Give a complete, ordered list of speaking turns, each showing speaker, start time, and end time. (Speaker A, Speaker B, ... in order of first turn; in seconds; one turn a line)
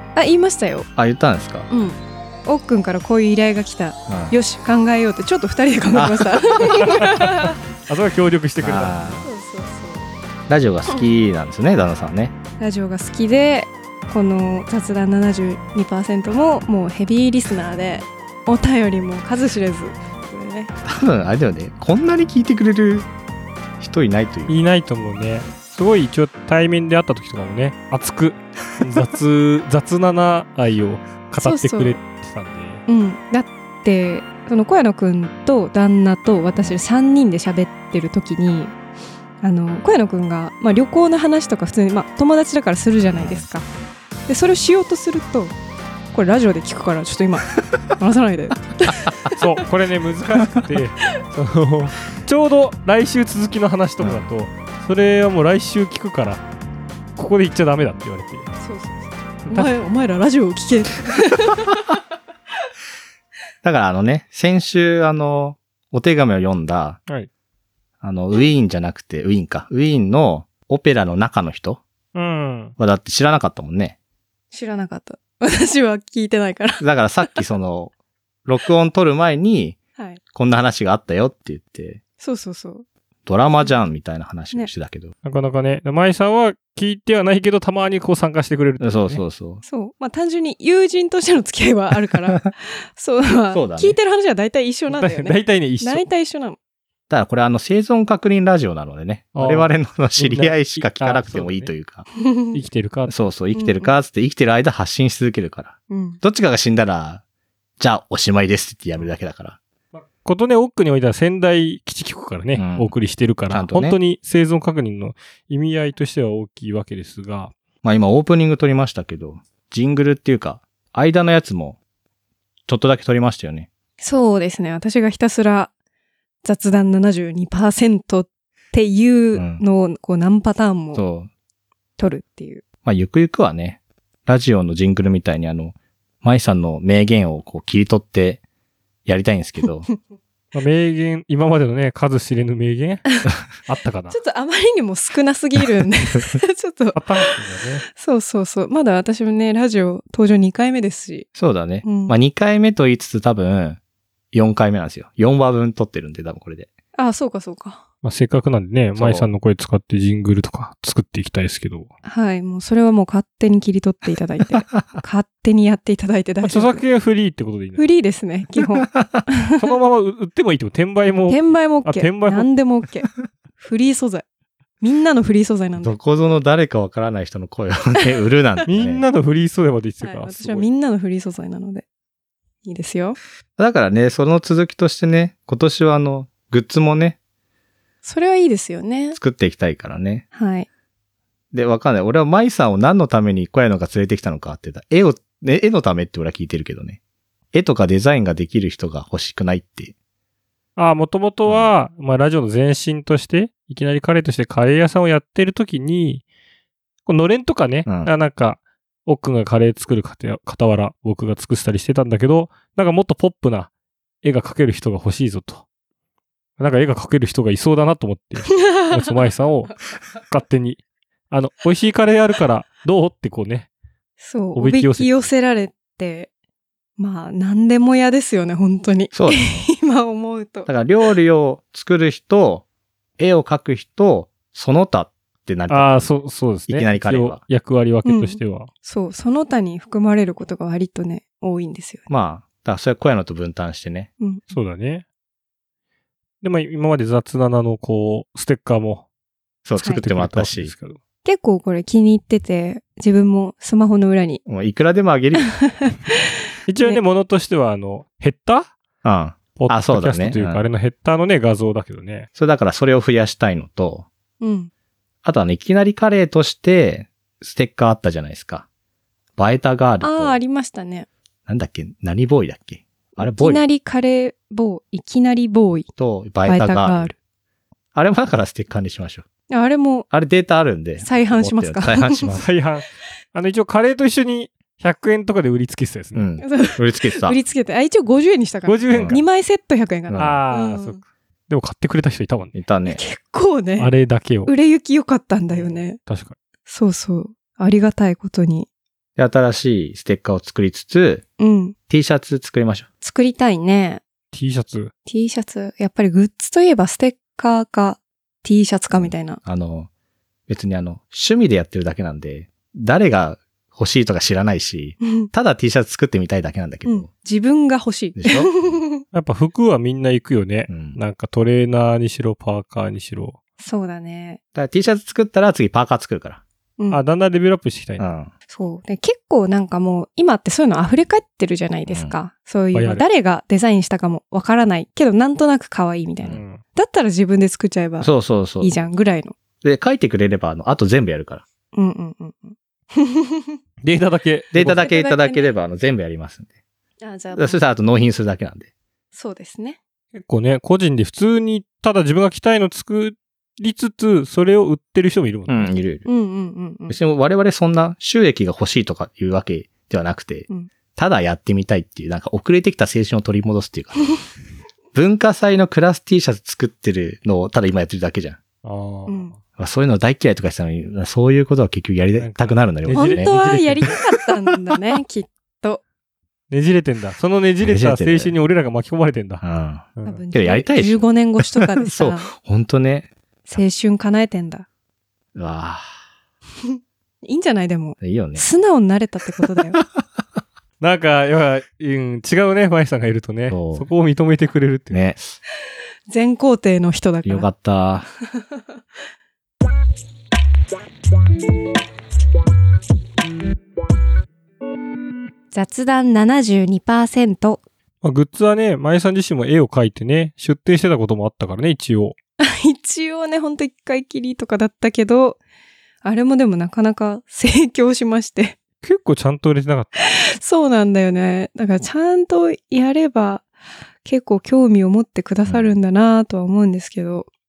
Speaker A: 0.1-0.9
Speaker B: 0.9-1.7
Speaker A: 1.7-7.6
Speaker B: 4.1-4.4
Speaker B: 6.0-6.8
Speaker C: 6.8-9.1
Speaker B: 8.6-9.3
Speaker A: 9.2-10.1
Speaker B: 10.5-12.3
Speaker A: 12.6-20.8
Speaker B: 20.8-23.1
Speaker B: 23.8-24.6
Speaker C: 24.5-32.8
Speaker A: 31.4-32.0
Speaker A: 32.9-38.8
Speaker A: 39.4-43.7
Speaker B: 43.2-43.4
Speaker A: 44.3-45.5
Speaker A: 46.1-49.6
Speaker C: 49.4-56.4
Speaker B: 54.0-54.3
Speaker C: 57.2-58.5
Speaker A: 58.6-62.0
Speaker B: 63.6-67.0
Speaker B: 68.0-71.8
Speaker C: 72.1-72.8
Speaker B: 72.8-74.0
Speaker A: 74.5-76.8
Speaker B: 76.8-77.9
Speaker B: 78.5-79.8
Speaker A: 80.0-80.2
Speaker B: 80.3-82.0
Speaker A: 82.2-82.8
Speaker B: 83.3-85.1
Speaker C: 85.2-89.2
Speaker B: 88.8-89.6
Speaker A: 89.6-96.6
Speaker B: 93.5-94.0
Speaker C: 94.9-96.0
Speaker B: 97.1-102.1
Speaker C: 99.3-101.7
Speaker A: 102.2-102.6
Speaker C: 102.5-103.1
Speaker B: 103.1-107.2
Speaker A: 103.5-103.9
Speaker A: 105.9-106.2
Speaker B: 107.8-109.6
Speaker C: 109.9-117.5
Speaker B: 112.6-112.9
Speaker B: 113.5-114.0
Speaker B: 117.8-121.8
Speaker B: 122.7-123.7
Speaker A: 124.0-125.7
Speaker A: 126.4-131.0
Speaker B: 129.3-129.6
Speaker B: 130.9-131.3
Speaker A: 132.0-132.6
Speaker B: 132.8-138.4
Speaker B: 139.1-139.9
Speaker C: 140.5-144.2
Speaker A: 144.1-147.3
Speaker C: 146.9-147.9
Speaker A: 147.9-151.3
Speaker B: 151.4-153.8
Speaker A: 151.8-152.1
Speaker B: 154.3-156.7
Speaker A: 156.9-157.8
Speaker C: 158.0-161.9
Speaker B: 158.9-159.3
Speaker A: 162.0-166.8
Speaker B: 164.7-165.0
Speaker C: 166.4-167.8
Speaker A: 167.8-169.8
Speaker B: 168.8-169.2
Speaker C: 169.6-172.5
Speaker A: 171.3-174.2
Speaker A: 174.8-176.0
Speaker B: 175.8-179.0
Speaker C: 178.7-180.7
Speaker A: 180.0-181.8
Speaker A: 182.6-183.2
Speaker B: 183.6-187.2
Speaker A: 188.0-189.2
Speaker B: 189.1-190.2
Speaker A: 190.3-190.7
Speaker B: 191.5-197.0
Speaker B: 197.5-199.9
Speaker C: 200.8-206.2
Speaker B: 201.5-201.7
Speaker C: 207.1-213.7
Speaker B: 207.9-208.1
Speaker C: 214.2-215.6
Speaker C: 216.6-220.8
Speaker A: 218.5-219.3
Speaker C: 221.3-223.7
Speaker A: 224.2-226.3
Speaker C: 224.6-225.3
Speaker A: 227.0-230.7
Speaker B: 229.1-229.7
Speaker B: 230.7-232.7
Speaker B: 233.2-236.1
Speaker C: 235.7-238.7
Speaker B: 236.7-237.4
Speaker A: 238.1-242.1
Speaker B: 242.1-244.1
Speaker C: 244.5-245.0
Speaker C: 246.4-249.1
Speaker B: 249.7-250.7
Speaker C: 249.9-251.0
Speaker A: 251.2-254.4
Speaker B: 254.4-255.5
Speaker A: 255.5-256.2
Speaker C: 256.7-258.7
Speaker B: 259.0-260.6
Speaker C: 259.6-262.3
Speaker B: 262.4-264.1
Speaker A: 264.4-264.7
Speaker B: 265.2-268.7
Speaker B: 269.4-270.4
Speaker A: 270.0-271.1
Speaker B: 271.5-273.6
Speaker A: 273.2-275.9
Speaker B: 276.0-277.1
Speaker A: 276.5-277.1
Speaker B: 277.9-279.2
Speaker A: 279.5-280.1
Speaker B: 280.1-282.4
Speaker A: 281.0-282.2
Speaker C: 282.3-286.3
Speaker B: 286.1-287.4
Speaker A: 286.4-291.0
Speaker C: 288.7-289.2
Speaker B: 288.9-289.2
Speaker B: 290.1-290.4
Speaker C: 290.2-292.6
Speaker B: 292.6-293.0
Speaker A: 292.9-293.9
Speaker C: 293.8-294.5
Speaker A: 294.5-296.0
Speaker C: 295.6-296.4
Speaker A: 296.7-298.7
Speaker B: 299.2-301.2
Speaker A: 301.4-301.8
Speaker B: 301.9-302.9
Speaker A: 303.0-304.0
Speaker C: 304.3-304.9
Speaker A: 305.1-309.4
Speaker B: 308.9-309.9
Speaker B: 310.5-317.1
Speaker A: 315.1-315.3
Speaker A: 316.9-319.0
Speaker B: 318.2-318.8
Speaker C: 319.1-323.4
Speaker B: 320.7-321.0
Speaker A: 323.6-324.4
Speaker B: 324.6-326.4
Speaker C: 326.9-328.1
Speaker B: 328.0-328.3
Speaker A: 328.5-339.4
Speaker B: 331.9-332.1
Speaker C: 332.7-333.0
Speaker C: 336.3-336.6
Speaker B: 338.0-338.8
Speaker B: 339.6-341.4
Speaker A: 341.7-343.6
Speaker C: 343.8-344.8
Speaker B: 344.5-346.5
Speaker A: 344.6-345.5
Speaker A: 347.0-347.6
Speaker B: 347.3-348.7
Speaker A: 349.1-349.8
Speaker C: 350.1-355.7
Speaker B: 355.5-356.1
Speaker A: 356.1-357.0
Speaker B: 356.9-364.0
Speaker B: 364.9-368.4
Speaker C: 368.6-369.4
Speaker A: 369.1-369.3
Speaker B: 369.6-373.3
Speaker C: 372.2-373.9
Speaker A: 372.9-375.8
Speaker C: 376.5-379.4
Speaker B: 377.6-378.3
Speaker B: 379.4-383.1
Speaker C: 380.0-380.2
Speaker A: 380.1-382.3
Speaker A: 383.5-384.7
Speaker B: 385.4-385.9
Speaker A: 386.6-389.8
Speaker B: 388.0-388.5
Speaker B: 389.8-390.0
Speaker C: 390.8-395.1
Speaker B: 393.5-393.9
Speaker B: 394.9-395.2
Speaker A: 396.1-397.5
Speaker B: 397.2-398.1
Speaker A: 405.5-407.6
Speaker C: 408.0-412.1
Speaker A: 412.4-415.4
Speaker A: 416.0-418.6
Speaker C: 418.8-419.9
Speaker A: 420.0-423.5
Speaker A: 424.0-427.3